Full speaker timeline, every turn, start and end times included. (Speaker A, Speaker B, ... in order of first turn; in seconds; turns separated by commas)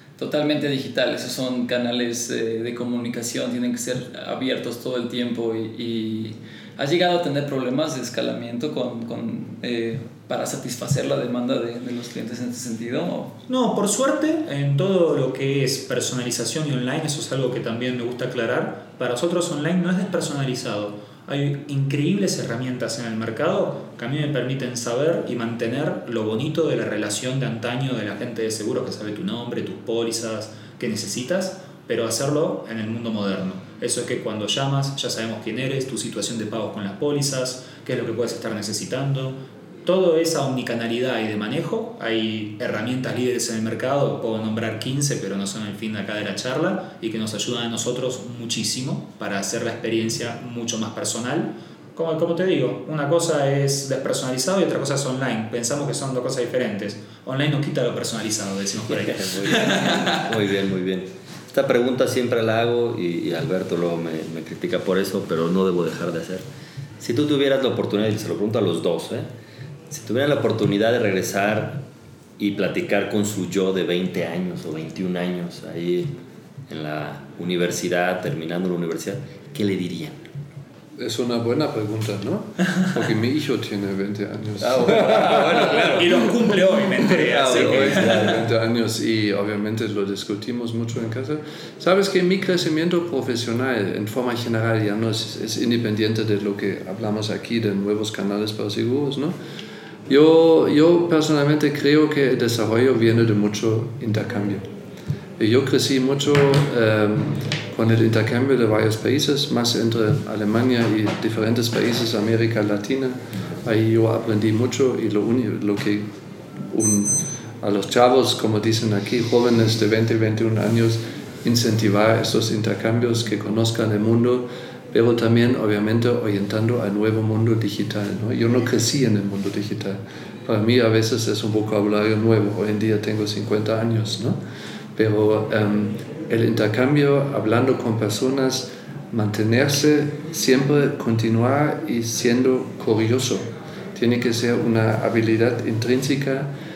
Speaker A: 0.2-13.4, Speaker B: 13.5-60.4, Speaker C: 58.9-66.5, Speaker C: 67.0-69.3, Speaker C: 69.9-71.9, Speaker C: 72.4-76.1, Speaker C: 76.7-80.2, Speaker D: 81.0-99.3, Speaker C: 84.8-85.7, Speaker B: 85.8-88.4, Speaker C: 87.6-88.1, Speaker D: 100.1-104.7, Speaker D: 105.4-134.4, Speaker D: 135.0-146.5